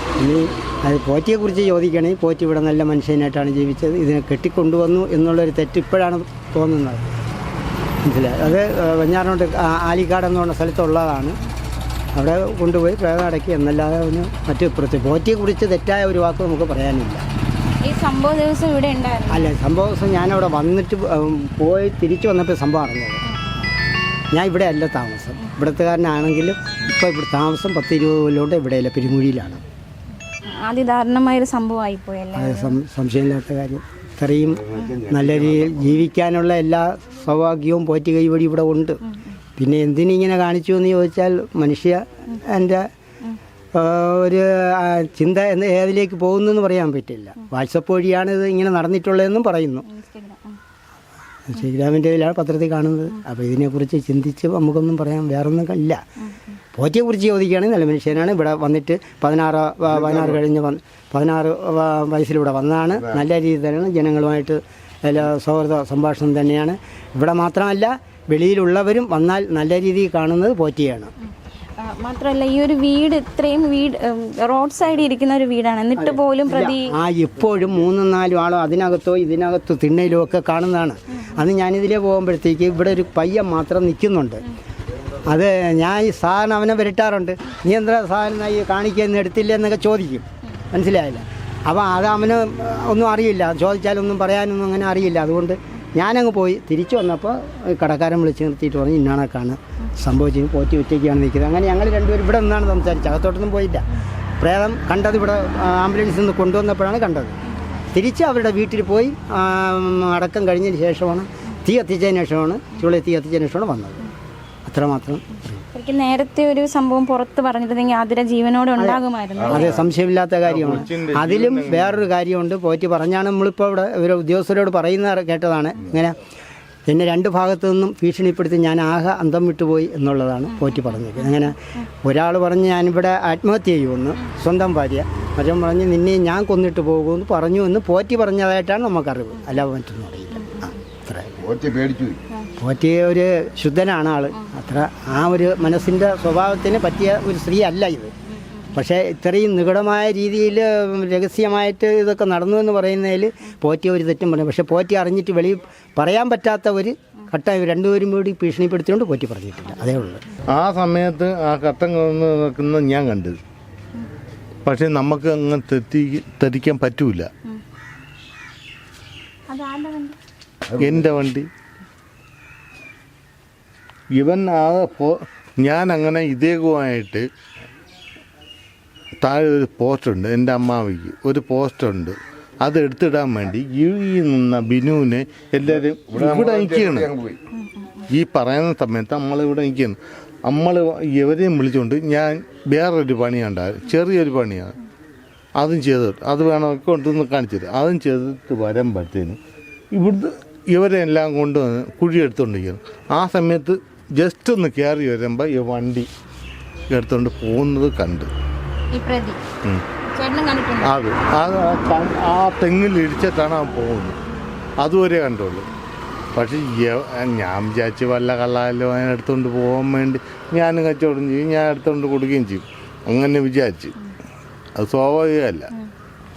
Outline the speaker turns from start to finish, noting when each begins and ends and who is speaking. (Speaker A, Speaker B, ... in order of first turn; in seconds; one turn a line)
Speaker A: 0.2-7.0
Speaker A: 8.0-11.4
Speaker A: 12.2-17.2
Speaker B: 17.8-19.5
Speaker A: 19.3-23.2
Speaker A: 24.3-29.6
Speaker B: 30.5-32.8
Speaker A: 32.4-39.0
Speaker C: 34.7-35.3
Speaker A: 39.6-42.9
Speaker A: 43.7-49.9
Speaker B: 49.9-50.6
Speaker A: 51.5-56.0
Speaker A: 56.7-71.1
Speaker B: 71.8-76.9
Speaker A: 76.0-84.4
Speaker A: 85.3-103.8
Speaker A: 104.4-107.3
Speaker A: 107.9-114.0
Speaker A: 114.7-115.5
Speaker B: 115.7-119.8
Speaker A: 118.8-126.2
Speaker D: 120.5-122.0
Speaker A: 126.9-141.4
Speaker B: 130.6-131.4
Speaker B: 140.4-140.8
Speaker C: 141.4-142.2
Speaker A: 142.6-148.1
Speaker B: 148.3-148.7
Speaker A: 148.7-160.2
Speaker D: 160.5-163.4
Speaker D: 164.7-167.3
Speaker B: 169.5-170.2
Speaker D: 170.8-171.5
Speaker D: 174.2-177.3
Speaker D: 179.2-187.2
Speaker C: 186.1-187.4
Speaker B: 187.6-188.0
Speaker D: 188.1-194.8
Speaker D: 195.6-199.4
Speaker D: 199.9-206.1
Speaker D: 206.9-208.3
Speaker B: 208.9-209.4
Speaker B: 210.1-211.0
Speaker D: 210.8-214.2
Speaker D: 214.8-215.7
Speaker D: 216.3-223.9
Speaker D: 224.8-225.7